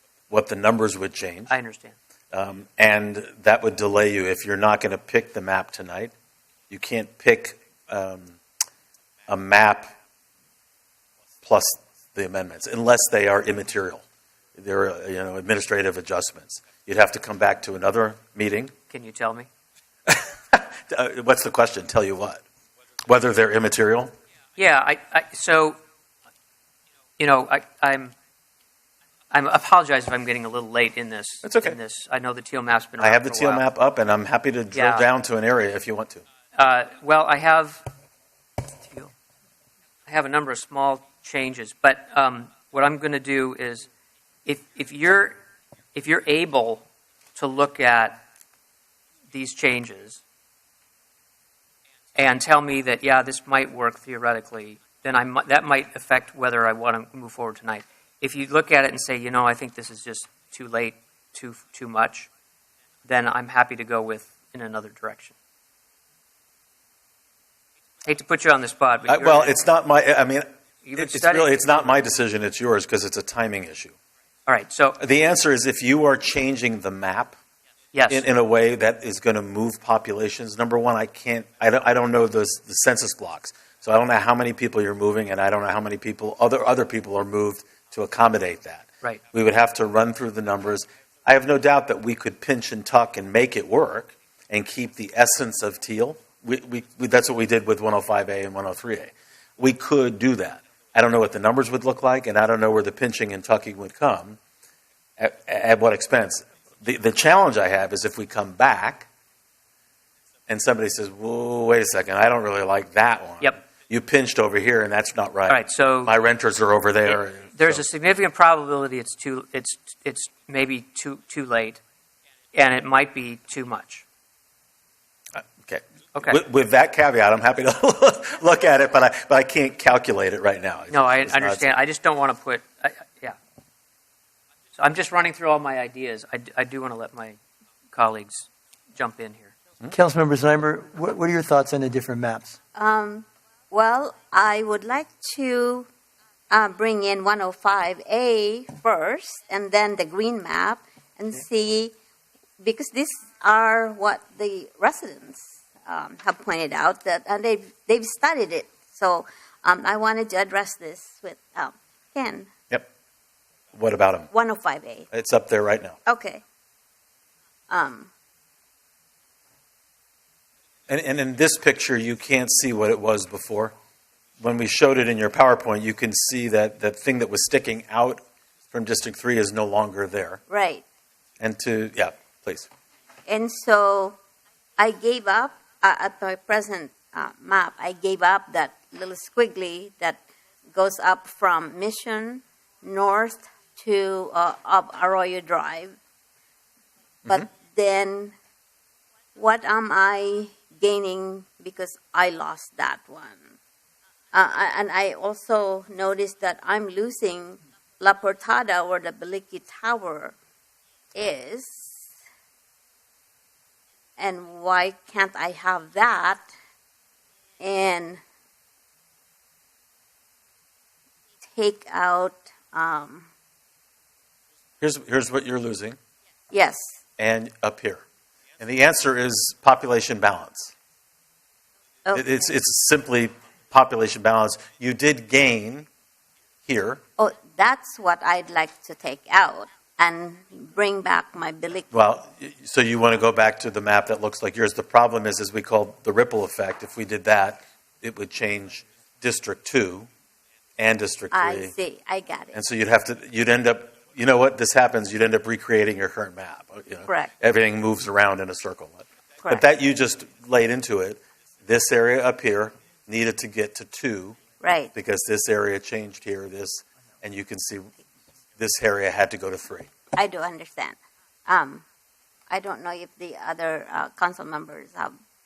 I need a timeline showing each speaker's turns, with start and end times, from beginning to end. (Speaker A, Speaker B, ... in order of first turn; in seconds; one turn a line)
Speaker A: 0.3-1.5
Speaker B: 1.5-1.9
Speaker A: 2.3-6.1
Speaker A: 6.7-8.4
Speaker A: 9.3-9.9
Speaker A: 11.4-14.0
Speaker A: 14.6-18.7
Speaker B: 18.9-19.5
Speaker A: 20.1-22.4
Speaker A: 23.1-24.1
Speaker B: 24.6-25.8
Speaker B: 27.2-28.1
Speaker B: 29.3-33.6
Speaker A: 31.4-31.8
Speaker A: 33.0-36.2
Speaker B: 34.7-35.0
Speaker B: 36.5-37.8
Speaker B: 40.1-43.9
Speaker B: 44.5-45.4
Speaker B: 45.9-48.2
Speaker B: 49.3-50.2
Speaker B: 52.1-62.3
Speaker B: 63.0-65.3
Speaker B: 68.0-69.6
Speaker A: 69.1-73.9
Speaker B: 70.8-71.9
Speaker B: 74.5-75.0
Speaker A: 75.0-77.3
Speaker B: 77.9-78.2
Speaker A: 78.1-104.4
Speaker A: 105.2-109.1
Speaker A: 110.5-117.8
Speaker B: 115.5-116.1
Speaker B: 117.0-121.8
Speaker B: 122.5-124.0
Speaker A: 125.6-131.8
Speaker B: 130.9-133.3
Speaker B: 134.8-137.4
Speaker B: 137.9-139.5
Speaker C: 139.9-142.6
Speaker D: 142.7-145.9
Speaker D: 146.5-151.9
Speaker D: 152.6-162.5
Speaker A: 163.7-164.3
Speaker D: 164.3-165.1
Speaker A: 165.1-166.0
Speaker D: 166.1-166.4
Speaker D: 167.7-168.1
Speaker A: 170.9-173.7
Speaker A: 174.4-180.4
Speaker D: 180.5-180.8
Speaker A: 181.4-182.7
Speaker D: 183.3-184.2
Speaker D: 184.8-190.2
Speaker D: 190.7-196.0
Speaker D: 197.3-198.3
Speaker D: 199.3-203.5
Speaker D: 204.3-210.3
Speaker D: 211.1-212.0
Speaker D: 214.2-216.5
Speaker D: 217.6-218.2
Speaker D: 221.4-223.3
Speaker A: 224.8-226.0
Speaker D: 226.5-227.0
Speaker A: 227.2-228.0
Speaker A: 228.6-230.7
Speaker D: 232.1-232.4
Speaker A: 232.1-235.9
Speaker A: 236.7-237.0
Speaker D: 237.2-241.9
Speaker A: 241.9-250.1
Speaker A: 250.8-251.7
Speaker D: 251.3-252.6
Speaker A: 252.5-264.4
Speaker D: 264.6-264.9
Speaker A: 264.9-267.9
Speaker A: 268.6-269.9
Speaker D: 270.1-271.8
Speaker D: 272.5-275.1